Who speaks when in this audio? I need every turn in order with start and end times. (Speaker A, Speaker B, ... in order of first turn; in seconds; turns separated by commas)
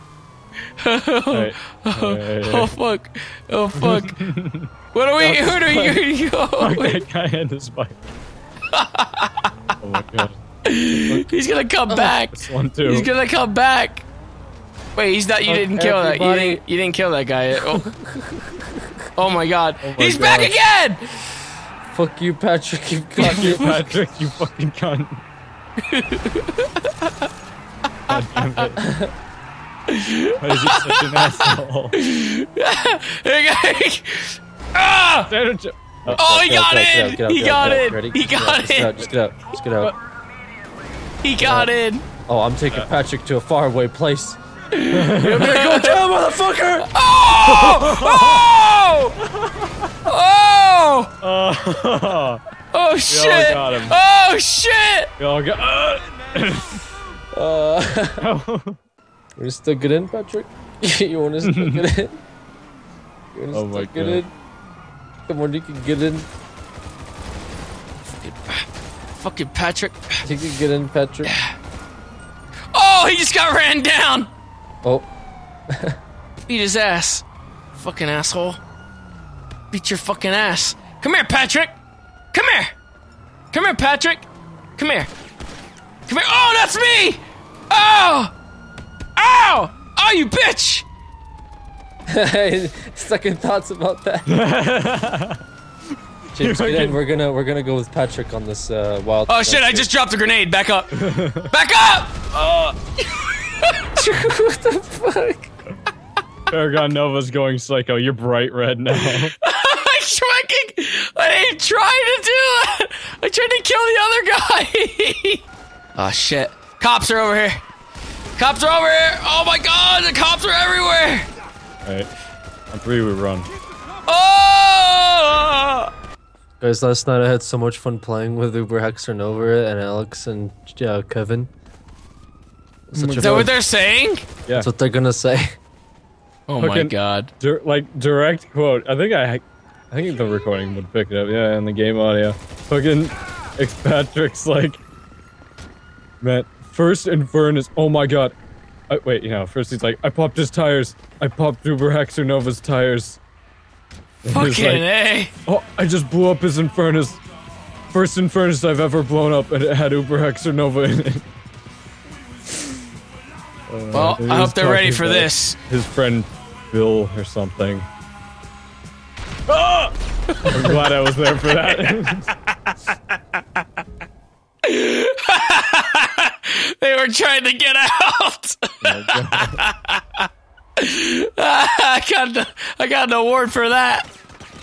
Speaker A: 0.8-4.2, Speaker B: 1.3-2.7, Speaker B: 3.8-4.7, Speaker A: 4.9-7.0, Speaker C: 5.2-6.0, Speaker B: 6.6-8.0, Speaker A: 8.7-9.5, Speaker B: 9.8-10.4, Speaker A: 10.6-14.0, Speaker C: 11.9-12.1, Speaker B: 12.3-13.1, Speaker A: 14.9-17.9, Speaker C: 15.4-16.6, Speaker C: 17.7-18.9, Speaker A: 19.1-21.2, Speaker B: 19.8-20.6, Speaker C: 21.9-23.9, Speaker B: 23.2-25.2, Speaker A: 23.4-23.7, Speaker A: 25.8-27.3, Speaker B: 28.1-28.8, Speaker A: 28.1-28.6, Speaker C: 28.8-29.1, Speaker A: 29.9-35.3, Speaker B: 30.4-32.0, Speaker B: 35.3-36.3, Speaker C: 36.1-39.9, Speaker A: 36.1-39.1, Speaker A: 41.2-42.0, Speaker C: 41.4-41.7, Speaker C: 42.3-44.4, Speaker A: 44.7-46.0, Speaker B: 44.9-45.6, Speaker C: 45.2-46.9, Speaker A: 46.8-49.1, Speaker B: 47.4-48.5, Speaker B: 49.3-49.9, Speaker A: 50.0-51.1, Speaker B: 51.2-52.4, Speaker A: 52.7-55.1, Speaker B: 53.1-54.0, Speaker B: 55.2-56.8, Speaker C: 57.3-58.2, Speaker B: 58.2-58.8, Speaker C: 59.4-62.2, Speaker B: 61.4-61.8, Speaker C: 63.3-64.3, Speaker B: 63.5-64.2, Speaker C: 65.3-66.3, Speaker A: 68.1-70.2, Speaker C: 70.2-71.3, Speaker A: 71.2-71.5, Speaker A: 72.7-74.3, Speaker C: 75.7-76.0, Speaker A: 76.5-78.6, Speaker A: 79.7-81.7, Speaker A: 82.3-82.7, Speaker A: 83.5-85.1, Speaker A: 86.1-88.3, Speaker A: 89.2-90.8, Speaker C: 92.1-94.3, Speaker B: 94.3-95.4, Speaker C: 96.3-99.9, Speaker B: 96.4-97.0, Speaker A: 99.3-104.0, Speaker B: 101.0-101.5, Speaker C: 104.0-105.5, Speaker B: 106.5-109.3, Speaker A: 109.1-115.4, Speaker A: 116.0-117.6, Speaker A: 118.4-121.2, Speaker B: 121.8-122.1, Speaker B: 122.7-123.5, Speaker A: 124.0-125.9, Speaker C: 126.6-131.5, Speaker C: 132.9-133.5, Speaker B: 132.9-133.5, Speaker A: 133.2-134.2, Speaker C: 134.5-135.6, Speaker A: 136.5-137.3, Speaker B: 136.6-144.8, Speaker B: 146.2-148.3, Speaker B: 148.9-153.2, Speaker B: 154.2-154.8, Speaker A: 154.3-155.3, Speaker B: 155.4-157.2, Speaker B: 157.9-161.2, Speaker B: 163.7-167.9, Speaker A: 163.9-165.6, Speaker B: 169.5-172.3, Speaker A: 171.6-172.0, Speaker A: 172.7-173.4, Speaker A: 174.6-184.1, Speaker B: 178.8-179.6